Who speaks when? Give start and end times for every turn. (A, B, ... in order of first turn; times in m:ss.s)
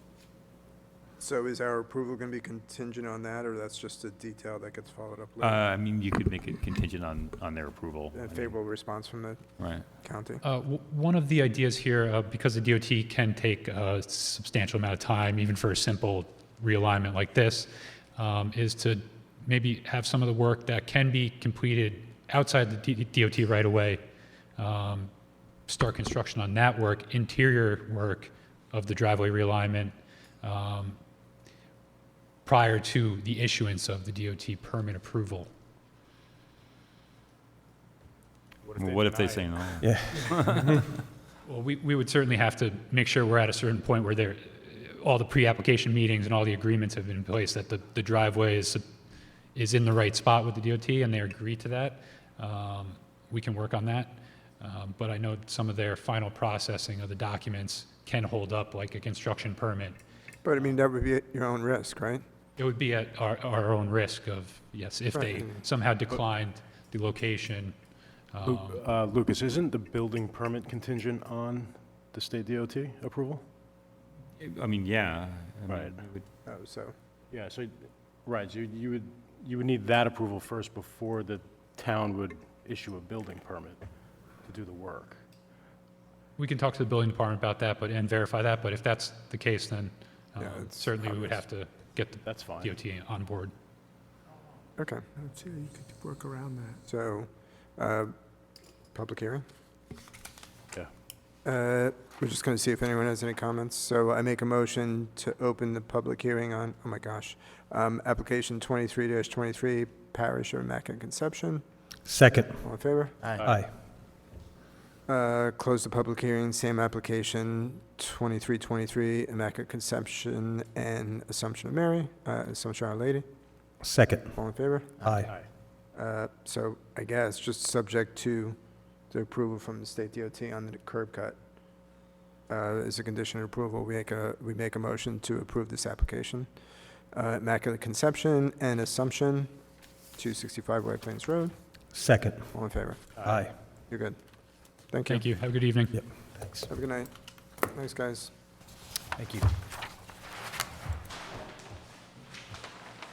0:01.2-0:05.6 A
0:05.4-0:08.6 B
0:08.1-0:09.4 A
0:09.6-0:09.8 B
0:10.0-0:10.4 A
0:10.4-0:24.0 C
0:24.6-0:25.1 C
0:25.7-0:31.0 C
0:32.4-0:35.5 C
0:38.6-0:39.7 D
0:38.8-0:40.8 B
0:39.2-0:39.4 C
0:39.8-0:40.8 E
0:41.4-0:48.8 C
0:49.6-1:00.0 C
1:00.4-1:02.2 A
1:02.6-1:07.8 C
1:05.1-1:05.6 A
1:08.3-1:08.8 C
1:08.4-1:13.4 F
1:14.4-1:16.2 B
1:15.7-1:16.1 F
1:16.5-1:17.0 A
1:17.3-1:23.9 F
1:24.4-1:25.2 F
1:26.4-1:33.5 C
1:30.4-1:31.4 A
1:32.2-1:32.8 F
1:34.8-1:35.0 A
1:35.2-1:36.8 D
1:36.9-1:38.1 A
1:38.9-1:39.4 A
1:41.4-1:51.6 A
1:52.0-1:52.6 E
1:52.6-1:53.3 A
1:53.4-1:53.7 E
1:55.1-2:03.2 A
2:03.8-2:04.4 E
2:04.4-2:05.3 A
2:05.0-2:05.3 E
2:06.0-2:08.6 A
2:09.1-2:11.4 A
2:12.5-2:16.5 A
2:17.1-2:19.5 A
2:20.2-2:21.5 A
2:21.9-2:22.5 E
2:22.5-2:23.2 A
2:23.2-2:23.5 F
2:23.2-2:23.5 E
2:23.9-2:24.2 A
2:24.9-2:25.2 A
2:25.1-2:25.9 C
2:25.9-2:26.7 E
2:26.7-2:27.1 A
2:27.7-2:28.3 A
2:29.2-2:29.5 E